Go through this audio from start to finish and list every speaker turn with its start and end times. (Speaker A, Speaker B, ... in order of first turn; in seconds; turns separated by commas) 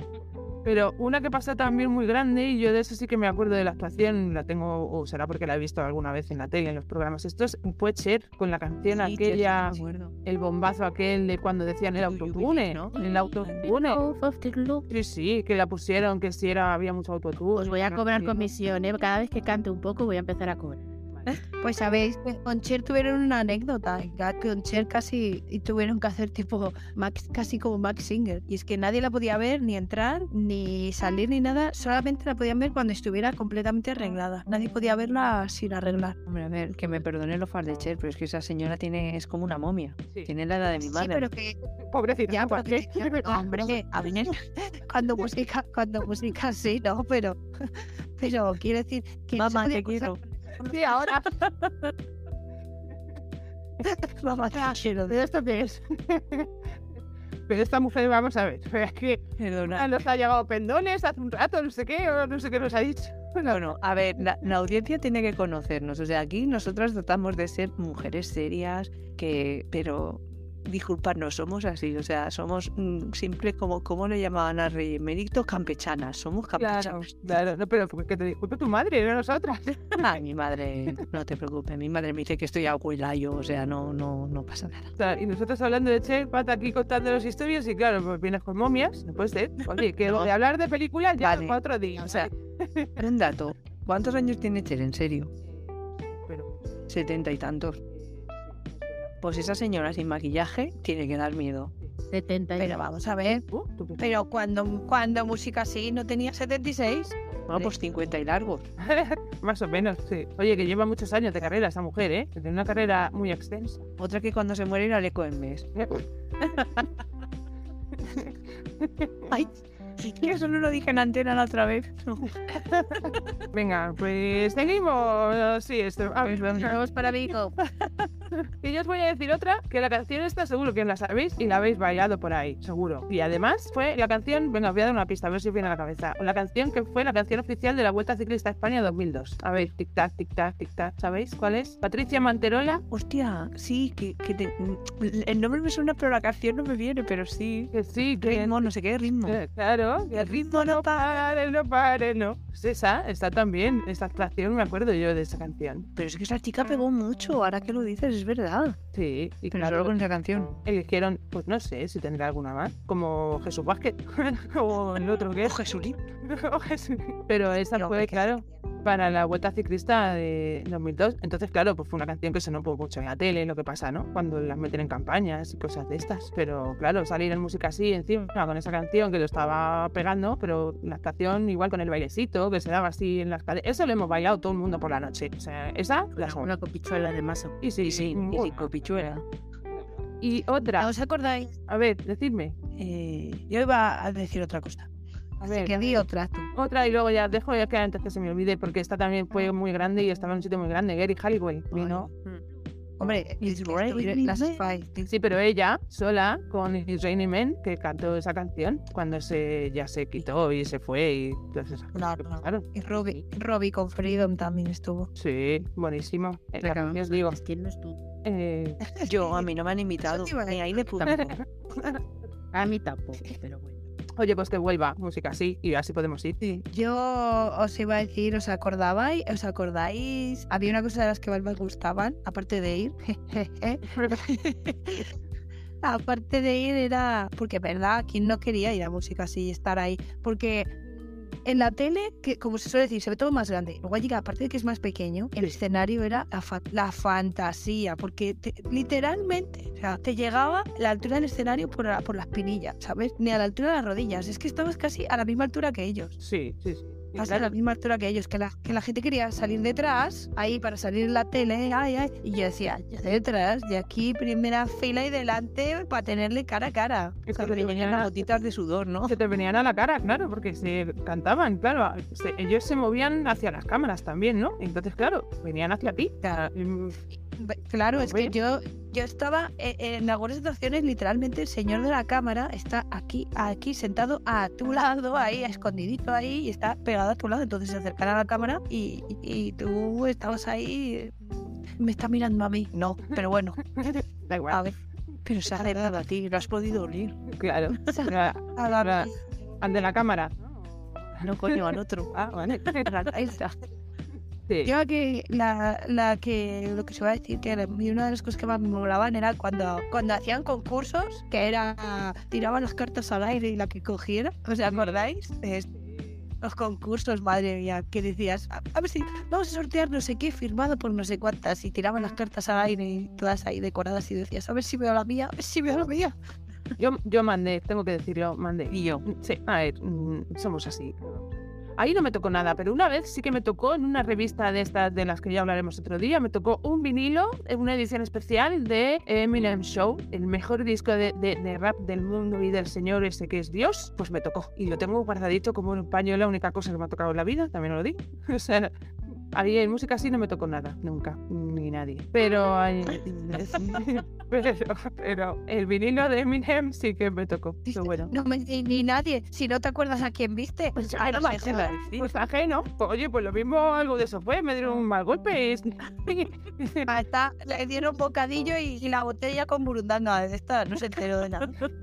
Speaker A: 0.7-14.0, Speaker B: 8.9-10.1, Speaker B: 12.0-13.7, Speaker C: 12.9-14.9, Speaker A: 14.9-18.4, Speaker C: 17.6-20.8, Speaker D: 21.3-36.2, Speaker B: 36.3-41.3, Speaker D: 40.8-41.6, Speaker A: 41.9-43.7, Speaker D: 42.3-51.9, Speaker B: 43.9-44.3, Speaker B: 49.4-50.2, Speaker A: 50.7-51.2, Speaker D: 53.8-55.2, Speaker A: 55.1-56.5, Speaker A: 57.5-63.6, Speaker B: 59.4-60.1, Speaker B: 63.5-77.1, Speaker A: 76.6-80.1, Speaker B: 80.0-84.9, Speaker A: 85.0-92.9, Speaker B: 91.2-92.3, Speaker B: 93.0-95.3, Speaker A: 95.5-96.8, Speaker B: 96.9-97.8, Speaker A: 98.0-99.1, Speaker B: 99.2-101.7, Speaker C: 102.1-102.8, Speaker D: 102.6-103.4, Speaker A: 103.5-104.1, Speaker D: 104.0-107.7, Speaker B: 107.5-108.7, Speaker A: 108.8-113.8, Speaker B: 114.0-115.7, Speaker A: 115.8-116.0, Speaker A: 118.0-119.3, Speaker B: 119.3-123.2, Speaker A: 122.5-126.8, Speaker B: 126.3-126.7, Speaker D: 126.8-127.5, Speaker A: 128.4-142.8, Speaker B: 142.9-149.4, Speaker A: 147.7-148.7, Speaker A: 149.2-155.9, Speaker B: 150.1-151.2, Speaker B: 156.0-158.8, Speaker A: 158.9-159.9, Speaker B: 159.5-160.5, Speaker A: 160.7-165.6, Speaker B: 165.4-166.0, Speaker A: 166.2-186.5, Speaker D: 167.7-168.7, Speaker C: 186.2-187.6, Speaker A: 187.6-189.1, Speaker B: 187.8-189.2, Speaker A: 190.2-190.9, Speaker D: 190.6-191.5, Speaker A: 191.7-192.5, Speaker D: 192.8-194.9, Speaker D: 195.4-196.5, Speaker A: 195.4-196.0, Speaker A: 196.5-202.1, Speaker B: 201.7-202.4, Speaker D: 203.0-205.1, Speaker B: 203.0-204.6, Speaker A: 205.1-213.1, Speaker D: 211.9-215.1, Speaker A: 215.2-217.4, Speaker C: 216.6-218.0, Speaker A: 218.2-218.8, Speaker D: 218.9-219.5, Speaker B: 219.1-221.4, Speaker D: 220.1-220.6, Speaker C: 221.0-221.3, Speaker A: 221.1-222.0, Speaker C: 222.5-223.8, Speaker A: 224.2-226.4, Speaker D: 226.4-235.1, Speaker A: 233.9-234.2, Speaker D: 235.8-240.7, Speaker D: 241.4-256.2, Speaker A: 256.2-257.5, Speaker D: 257.2-267.9, Speaker A: 267.3-268.2, Speaker B: 267.4-269.2, Speaker A: 269.1-277.0, Speaker D: 276.2-276.5, Speaker D: 277.4-293.9, Speaker A: 277.9-278.3, Speaker A: 293.8-294.6, Speaker D: 294.5-294.8, Speaker B: 295.2-297.2, Speaker D: 295.5-295.9, Speaker A: 297.3-299.1, Speaker D: 297.8-299.2, Speaker A: 299.6-300.5, Speaker A: 301.0-302.9, Speaker B: 301.2-302.1, Speaker B: 302.7-303.6, Speaker D: 303.1-303.4, Speaker D: 304.6-315.7, Speaker A: 314.7-315.1, Speaker D: 316.4-326.1, Speaker A: 326.8-348.7, Speaker B: 328.7-329.0, Speaker A: 349.3-358.1, Speaker B: 353.1-353.9, Speaker D: 357.7-361.8, Speaker B: 360.8-362.1, Speaker A: 362.0-366.9, Speaker D: 366.9-371.6